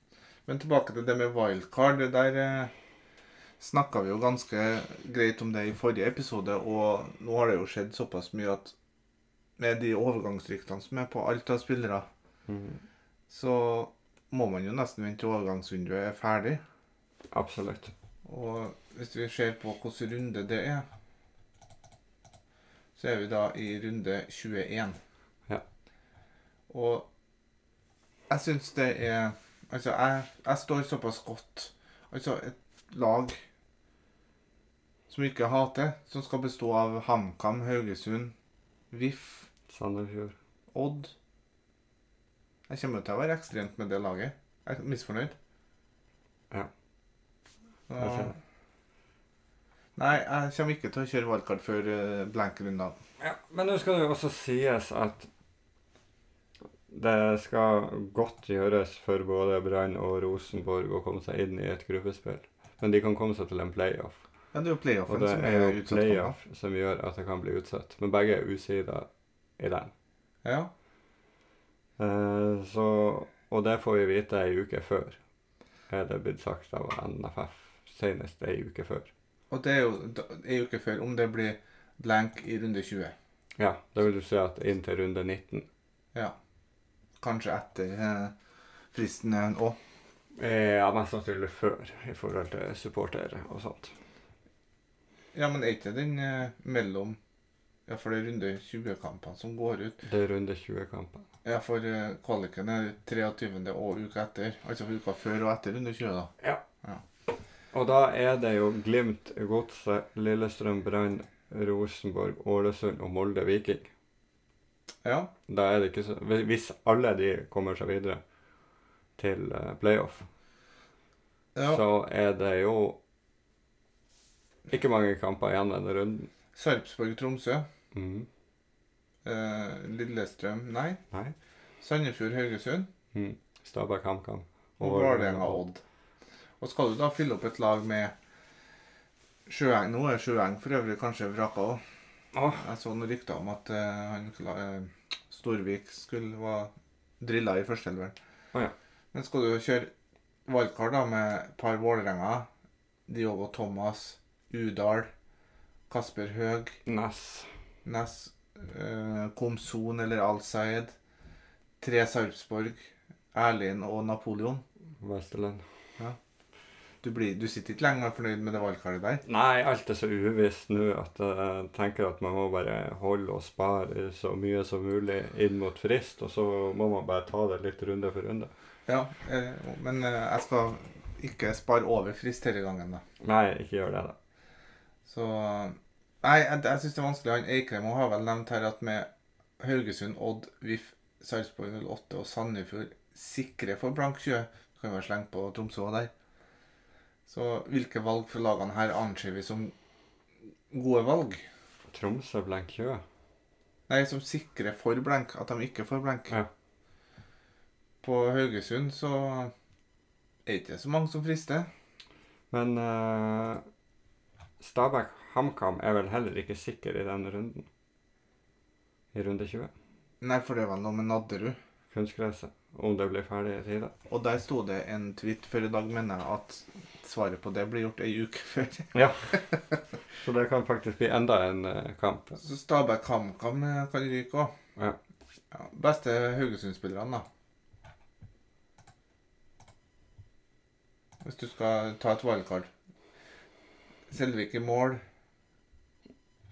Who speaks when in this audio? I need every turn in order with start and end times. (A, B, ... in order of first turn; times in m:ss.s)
0:00.4-0:02.7 A
0:03.6-0:08.8 A
0:09.6-0:12.1 A
0:12.5-0:12.8 B
0:13.3-0:16.6 A
0:17.3-0:17.9 B
0:18.2-0:20.8 A
0:23.0-0:25.0 A
0:26.7-0:27.1 A
0:28.3-0:33.4 A
0:35.1-0:38.4 A
0:38.9-0:39.5 A
0:39.7-0:40.4 B
0:40.7-0:41.1 A
0:42.7-0:45.4 A
0:47.9-0:48.4 A
0:48.0-0:48.3 B
0:50.0-0:52.9 A
0:53.2-0:55.3 B
0:56.9-1:04.2 B
1:04.5-1:06.4 A
1:05.1-1:09.1 B
1:09.6-1:09.9 B
1:10.4-1:10.7 A
1:12.0-1:15.2 B
1:15.9-1:19.1 B
1:19.5-1:23.1 A
1:23.6-1:25.7 B
1:27.2-1:28.4 A
1:28.9-1:29.8 A
1:30.4-1:33.9 B
1:35.3-1:37.2 A
1:37.9-1:40.0 A
1:40.0-1:41.3 B
1:41.4-1:46.3 A
1:47.7-1:53.9 B
1:55.0-1:55.3 A
1:55.5-1:58.2 B
1:59.2-2:00.3 B
2:01.6-2:01.8 A
2:01.7-2:03.0 B
2:04.7-2:06.3 B
2:06.6-2:07.7 A
2:07.9-2:08.3 B
2:09.2-2:11.0 A
2:11.8-2:12.9 A
2:13.1-2:15.6 B
2:14.8-2:15.8 A
2:16.6-2:18.1 A
2:19.5-2:21.8 A
2:22.3-2:22.6 B
2:22.5-2:28.1 A
2:29.1-2:29.9 A
2:30.5-2:32.5 A
2:33.1-2:35.1 A
2:35.9-2:36.8 A
2:36.9-2:37.5 B
2:37.8-2:40.9 A
2:41.8-2:44.6 A
2:45.0-2:45.6 B
2:47.0-2:49.2 A
2:49.2-2:58.5 B
2:58.9-3:03.0 A
3:03.2-3:04.2 B
3:05.1-3:16.1 A
3:17.3-3:19.7 A
3:20.7-3:21.4 A
3:21.9-3:23.0 B
3:23.9-3:26.4 A
3:28.0-3:29.5 A
3:30.4-3:31.7 A
3:32.5-3:33.6 B
3:34.6-3:37.7 B
3:39.1-3:39.7 B
3:40.2-3:41.6 A
3:41.9-3:43.9 B
3:44.1-3:49.6 A
3:48.9-3:49.4 B
3:50.2-3:52.4 B
3:52.4-3:54.5 A
3:55.5-3:57.2 A
4:01.2-4:02.7 A
4:04.1-4:05.0 A